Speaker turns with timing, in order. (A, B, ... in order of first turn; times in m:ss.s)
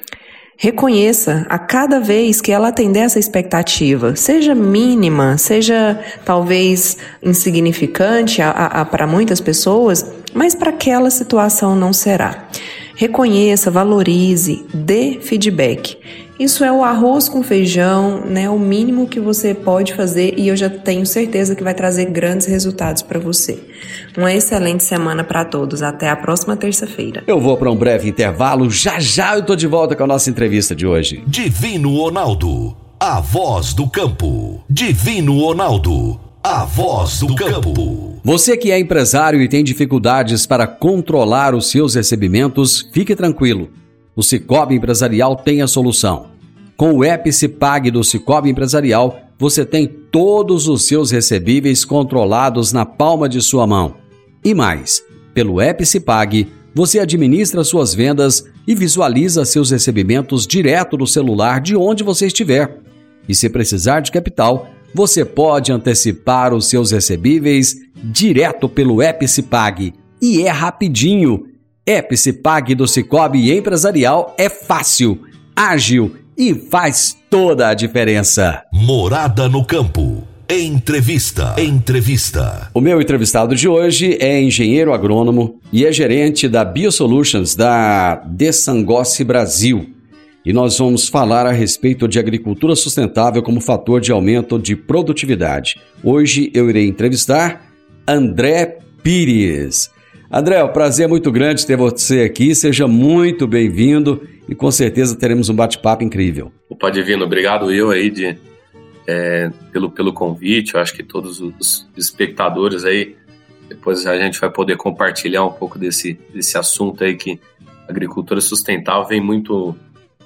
0:00.6-0:27.3 A
0:27.3-0:31.2 B
0:31.3-0:38.2 C
0:38.2-1:18.6 B
1:18.7-1:22.7 C
1:22.7-1:46.5 B
1:46.7-1:48.4 D
1:49.1-1:53.2 D
1:53.7-1:59.8 D